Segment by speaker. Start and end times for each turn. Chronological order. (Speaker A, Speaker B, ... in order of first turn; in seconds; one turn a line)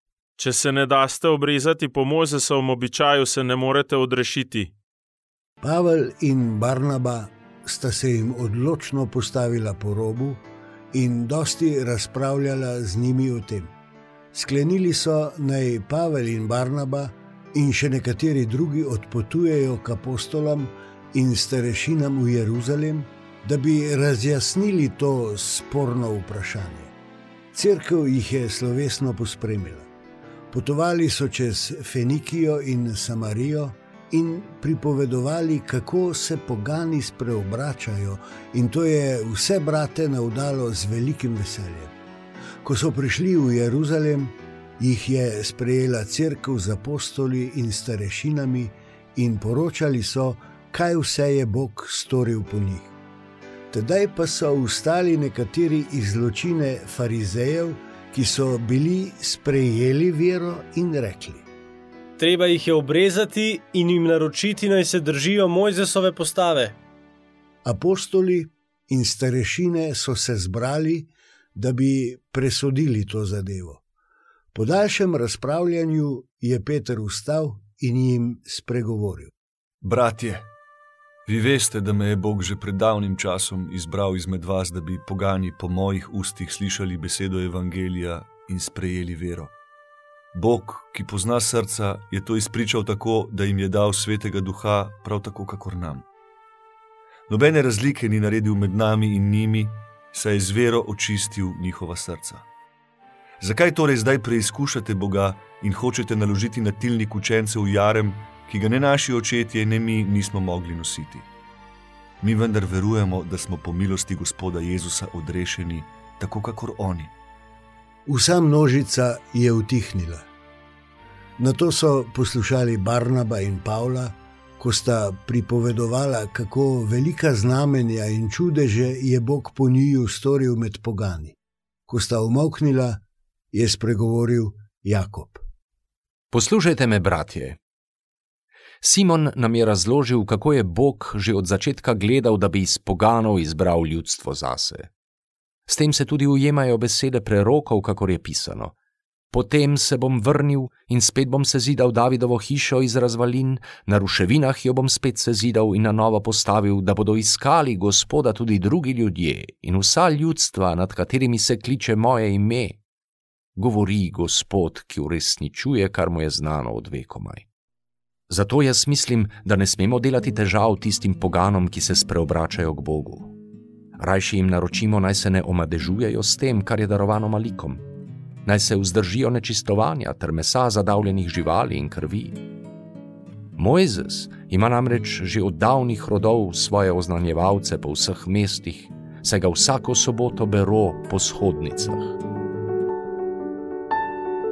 Speaker A: 0.4-4.7
Speaker B: 5.6-13.7
Speaker B: 14.3-26.9
Speaker B: 27.5-29.9
Speaker B: 30.5-41.9
Speaker B: 42.6-52.9
Speaker B: 53.7-61.5
Speaker A: 62.2-64.7
Speaker C: 62.2-66.7
Speaker A: 65.2-66.7
Speaker B: 67.6-73.8
Speaker B: 74.5-79.3
Speaker D: 79.8-80.5
Speaker D: 81.3-89.5
Speaker D: 90.3-96.0
Speaker D: 97.3-102.5
Speaker D: 103.4-111.3
Speaker D: 112.2-117.1
Speaker B: 118.1-120.2
Speaker B: 121.4-131.4
Speaker B: 131.9-133.0
Speaker B: 133.5-135.4
Speaker E: 136.3-137.6
Speaker E: 138.8-144.9
Speaker E: 145.7-148.7
Speaker E: 149.3-162.8
Speaker E: 163.6-167.4
Speaker E: 168.3-173.3
Speaker E: 174.0-177.8
Speaker E: 178.4-182.4
Speaker E: 183.6-192.1